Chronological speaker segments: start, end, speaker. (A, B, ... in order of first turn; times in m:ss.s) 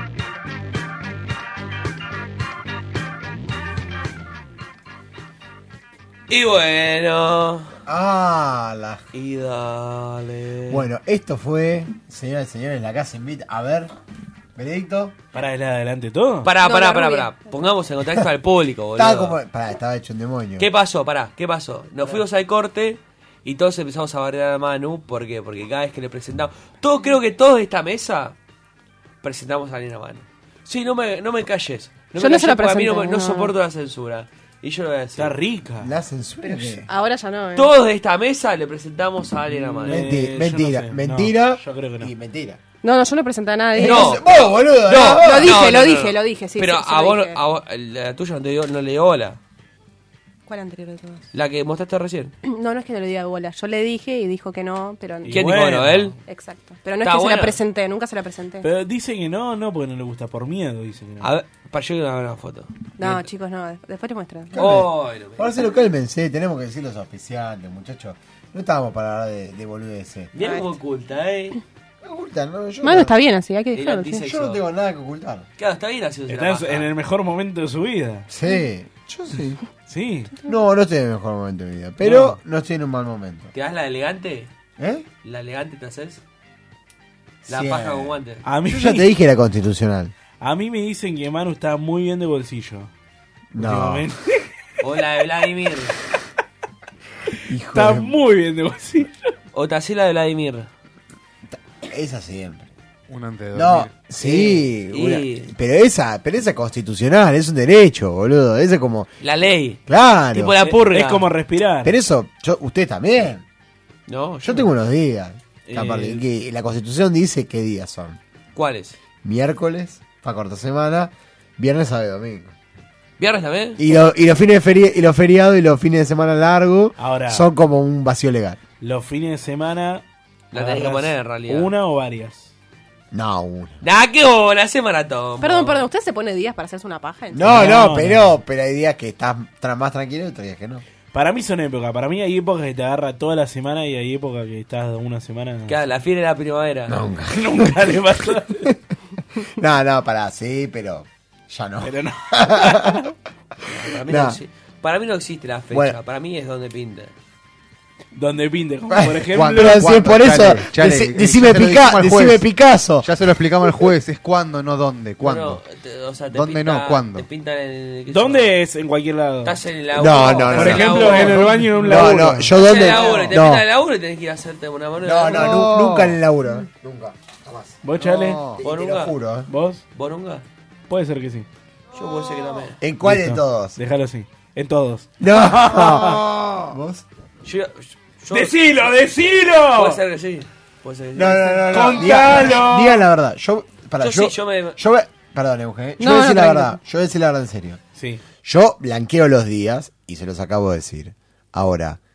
0:06.3-0:07.7 A
0:07.9-0:09.0 B
0:09.1-0:10.8 A
0:10.7-0:13.9 B
0:14.6-0:15.2 B
0:15.3-0:16.5 C
0:16.4-0:19.4 A
0:16.6-0:17.5 D
0:19.0-0:20.7 B
0:20.6-0:28.4 A
0:29.2-0:35.4 A
0:32.2-0:33.5 D
0:35.2-0:35.9 C
0:35.8-0:36.9 B
0:36.4-0:37.7 D
0:37.6-0:40.0 A
0:39.5-0:42.1 C
0:39.9-0:42.6 B
0:42.8-0:44.3 D
0:43.7-0:45.6 B
0:43.8-0:49.4 A
0:44.9-0:47.4 D
0:50.5-0:51.3 D
0:51.3-0:52.3 A
0:52.4-0:55.5 D
0:55.2-0:56.2 C
0:55.3-0:56.2 A
0:56.3-0:58.7 D
0:57.0-0:57.6 A
0:58.6-1:01.3 C
1:01.2-1:03.1 A
1:03.0-1:04.7 D
1:04.5-1:10.3 B
1:04.6-1:05.6 A
1:10.3-1:11.6 A
1:10.4-1:10.7 D
1:12.0-1:13.2 B
1:12.8-1:14.3 D
1:13.7-1:14.6 A
1:14.2-1:15.5 B
1:15.6-1:16.9 A
1:16.3-1:18.3 C
1:18.3-1:19.6 B
1:19.9-1:20.3 C
1:20.4-1:23.5 B
1:22.0-1:22.4 C
1:23.5-1:24.5 A
1:24.8-1:25.1 B
1:25.2-1:26.2 A
1:27.5-1:30.1 B
1:27.5-1:28.4 A
1:28.4-1:29.1 C
1:30.4-1:32.9 C
1:33.5-1:34.0 B
1:33.6-1:34.4 C
1:34.8-1:36.0 A
1:37.5-1:38.1 B
1:37.7-1:39.1 C
1:39.5-1:40.7 A
1:41.5-1:42.7 B
1:43.1-1:44.0 E
1:43.5-1:49.1 B
1:44.2-1:45.5 A
1:49.2-1:49.8 A
1:49.9-1:50.5 B
1:50.3-1:51.3 A
1:50.6-1:52.0 C
1:51.8-1:53.4 B
1:54.1-1:54.7 A
1:54.4-1:58.2 B
1:55.7-1:56.2 C
1:58.6-1:59.0 A
1:59.2-2:02.5 B
2:03.2-2:03.8 A
2:03.8-2:08.6 B
2:07.0-2:07.5 C
2:08.8-2:10.0 C
2:10.5-2:11.7 A
2:10.5-2:12.5 C
2:13.1-2:13.8 B
2:13.8-2:15.8 A
2:15.4-2:17.8 D
2:17.3-2:20.8 B
2:17.4-2:18.3 C
2:21.1-2:25.8 C
2:25.7-2:27.0 A
2:26.9-2:28.0 B
2:27.3-2:28.7 C
2:29.4-2:33.0 B
2:31.8-2:33.0 C
2:33.6-2:37.1 A
2:34.0-2:34.4 B
2:35.7-2:36.0 B
2:38.2-2:39.9 C
2:38.9-2:43.1 B
2:39.2-2:42.5 E
2:43.0-2:45.6 E
2:45.2-2:48.5 A
2:46.3-2:47.3 E
2:48.1-2:49.6 C
2:49.4-2:55.6 A
2:50.0-2:53.6 B
2:50.2-2:53.4 C
2:55.0-2:57.8 B
2:55.3-2:56.2 E
2:57.8-2:58.5 C
2:58.0-2:58.6 E
2:58.6-2:59.5 B
2:58.6-2:59.2 A
2:59.5-2:59.8 C
3:00.0-3:00.4 A
3:00.9-3:01.5 C
3:01.9-3:02.8 A
3:02.8-3:03.8 B
3:03.0-3:06.2 C
3:05.2-3:07.0 B
3:07.4-3:08.8 A
3:08.3-3:10.0 C
3:09.7-3:12.5 A
3:11.2-3:17.8 B
3:11.7-3:13.0 C
3:14.0-3:14.8 A
3:16.0-3:16.8 D
3:18.4-3:22.0 B